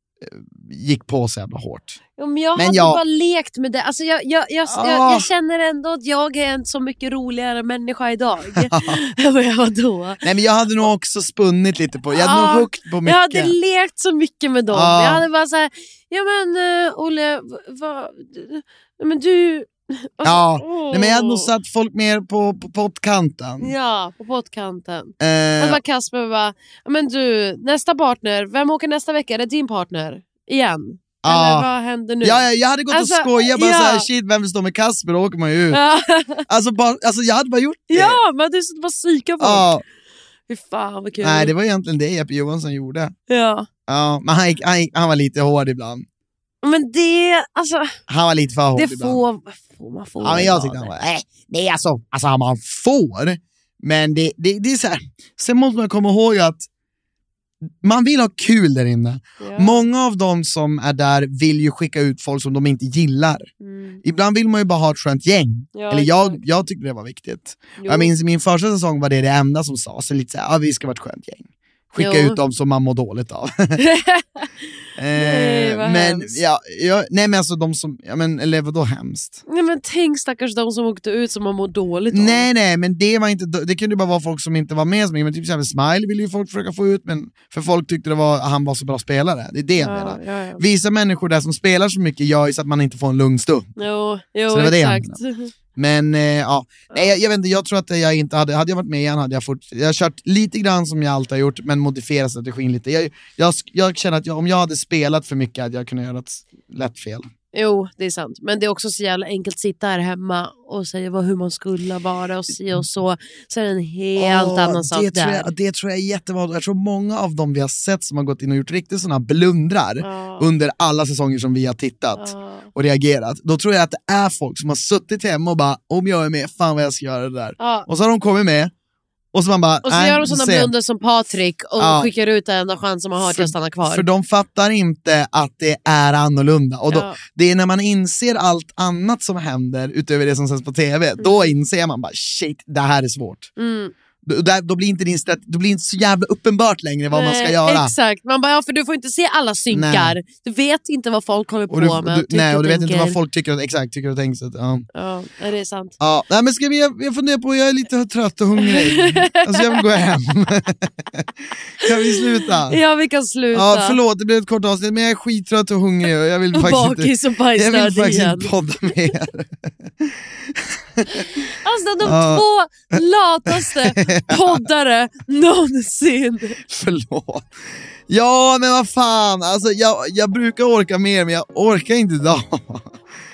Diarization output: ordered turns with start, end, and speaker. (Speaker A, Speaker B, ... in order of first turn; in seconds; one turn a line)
Speaker A: 0.2-2.0
Speaker B: 2.2-10.2
Speaker A: 2.5-3.0
Speaker A: 4.7-5.3
Speaker A: 8.5-9.0
Speaker A: 10.2-13.5
Speaker B: 12.1-21.5
Speaker A: 14.7-15.2
Speaker A: 20.2-23.7
Speaker B: 23.6-34.1
Speaker A: 25.2-25.8
Speaker A: 31.2-31.7
Speaker A: 32.2-35.8
Speaker B: 35.7-36.5
Speaker A: 36.5-38.2
Speaker B: 37.9-39.8
Speaker A: 39.4-39.8
Speaker B: 40.5-41.5
Speaker A: 41.2-43.1
Speaker B: 43.3-43.7
Speaker A: 43.9-46.0
Speaker B: 46.6-48.0
Speaker A: 48.1-49.2
Speaker B: 48.7-50.9
Speaker A: 50.2-56.7
Speaker A: 57.8-63.5
Speaker B: 59.4-59.9
Speaker B: 63.6-64.0
Speaker A: 64.0-73.8
Speaker B: 65.7-66.4
Speaker B: 67.8-68.1
Speaker B: 72.0-72.4
Speaker B: 73.8-74.5
Speaker A: 75.0-79.4
Speaker B: 75.1-76.4
Speaker B: 79.5-82.5
Speaker A: 82.1-93.7
Speaker B: 89.8-90.6
Speaker B: 93.8-95.5
Speaker A: 94.5-95.2
Speaker A: 95.8-107.3
Speaker B: 107.5-115.5
Speaker A: 114.2-128.7
Speaker B: 120.0-120.5
Speaker B: 122.2-122.7
Speaker B: 127.6-127.9
Speaker A: 129.3-130.7
Speaker B: 129.8-134.0
Speaker A: 131.8-132.1
Speaker A: 133.2-143.5
Speaker B: 136.9-137.2
Speaker B: 141.2-141.5
Speaker B: 143.6-143.9
Speaker A: 144.2-147.9
Speaker B: 147.1-153.2
Speaker A: 149.7-150.2
Speaker A: 151.7-154.8
Speaker B: 154.9-156.0
Speaker A: 156.0-161.3
Speaker B: 158.6-159.8
Speaker A: 161.8-162.8
Speaker B: 161.8-164.0
Speaker A: 163.5-171.2
Speaker B: 166.5-168.5
Speaker B: 171.1-176.6
Speaker A: 172.0-172.4
Speaker A: 173.5-174.6
Speaker A: 176.7-177.5
Speaker A: 178.1-182.9